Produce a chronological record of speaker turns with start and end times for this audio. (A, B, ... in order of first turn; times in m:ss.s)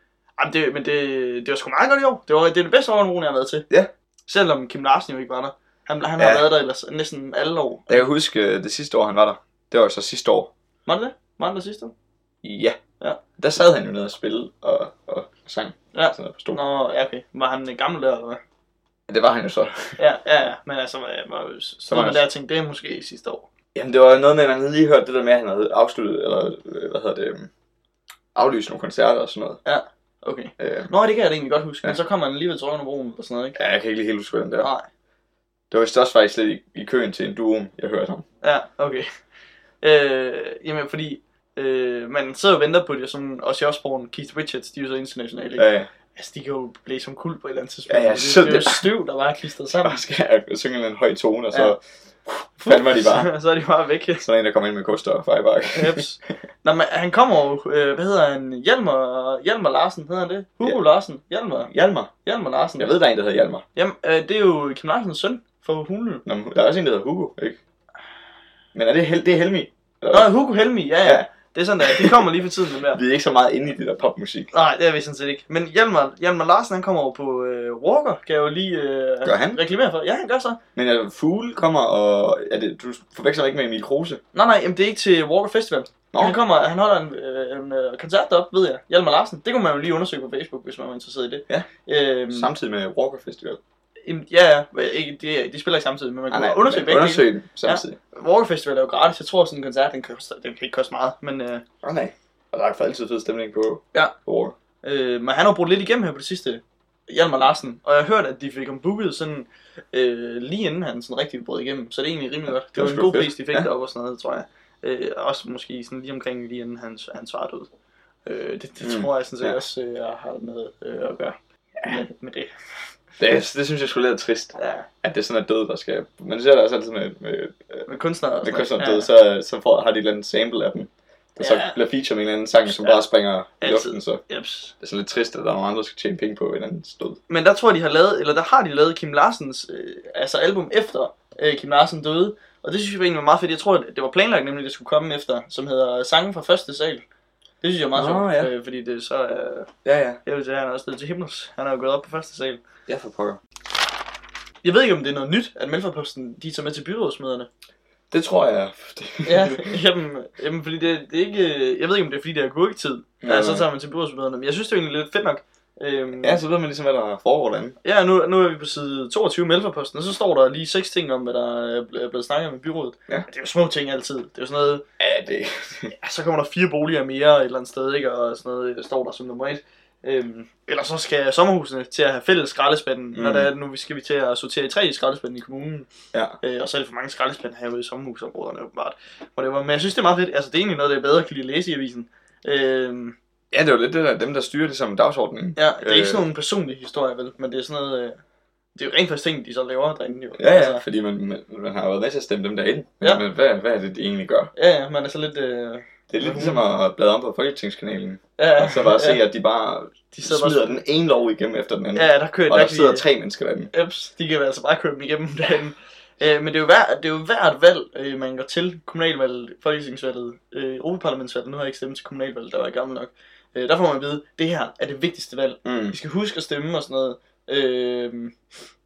0:00.4-0:03.7 A
0:04.3-0:08.1 A
0:06.2-0:06.5 B
0:07.9-0:10.5 B
0:10.9-0:11.9 A
0:12.4-0:12.8 B
0:13.4-0:16.6 B
0:15.9-0:18.4 A
0:19.1-0:20.0 B
0:20.0-0:23.5 A
0:21.9-0:22.2 B
0:23.8-0:27.5 B
0:28.4-0:29.6 B
0:29.6-0:33.6 A
0:30.6-0:30.9 B
0:33.6-0:34.7 B
0:34.6-0:34.9 A
0:35.7-0:38.2 B
0:38.4-0:39.1 A
0:39.8-0:50.0 A
0:45.6-0:45.9 B
0:47.9-0:48.9 B
0:49.8-0:51.8 B
0:52.6-0:54.2 A
0:52.6-0:53.3 B
0:54.2-0:56.0 B
0:55.7-1:01.7 A
1:01.7-1:02.1 B
1:02.2-1:02.9 A
1:02.8-1:03.6 B
1:03.8-1:06.2 A
1:06.2-1:07.6 B
1:08.8-1:10.3 B
1:10.1-1:13.0 A
1:11.0-1:12.3 B
1:12.9-1:14.5 B
1:14.5-1:20.6 A
1:19.2-1:19.6 B
1:20.8-1:24.2 B
1:24.3-1:32.5 A
1:26.1-1:26.4 B
1:32.3-1:33.6 B
1:34.0-1:41.6 A
1:36.3-1:38.0 B
1:41.8-1:44.6 B
1:44.8-1:57.7 A
1:52.7-1:53.7 B
1:58.3-2:02.5 A
1:58.8-1:59.6 B
2:03.2-2:07.9 B
2:04.6-2:04.9 A
2:07.9-2:09.1 A
2:08.4-2:14.2 B
2:11.4-2:11.8 A
2:12.7-2:13.0 A
2:13.6-2:14.7 A
2:14.8-2:17.2 B
2:17.3-2:27.0 A
2:27.6-2:29.7 A
2:28.0-2:28.5 B
2:29.8-2:30.2 B
2:30.2-2:32.6 A
2:32.9-2:33.4 B
2:34.6-2:37.5 A
2:38.1-2:39.8 B
2:39.2-2:46.4 A
2:43.2-2:43.7 B
2:46.2-2:47.8 B
2:47.8-2:54.8 A
2:55.0-2:55.9 B
2:55.9-3:05.9 A
3:03.2-3:03.5 B
3:06.4-3:13.2 A
3:13.5-3:16.2 B
3:15.6-3:18.2 A
3:18.8-3:20.8 A
3:20.4-3:24.5 B
3:24.6-3:26.6 A
3:26.1-3:33.7 B
3:28.4-3:29.2 A
3:30.1-3:30.8 A
3:31.9-3:33.0 A
3:33.7-3:48.4 A
3:45.6-3:46.0 B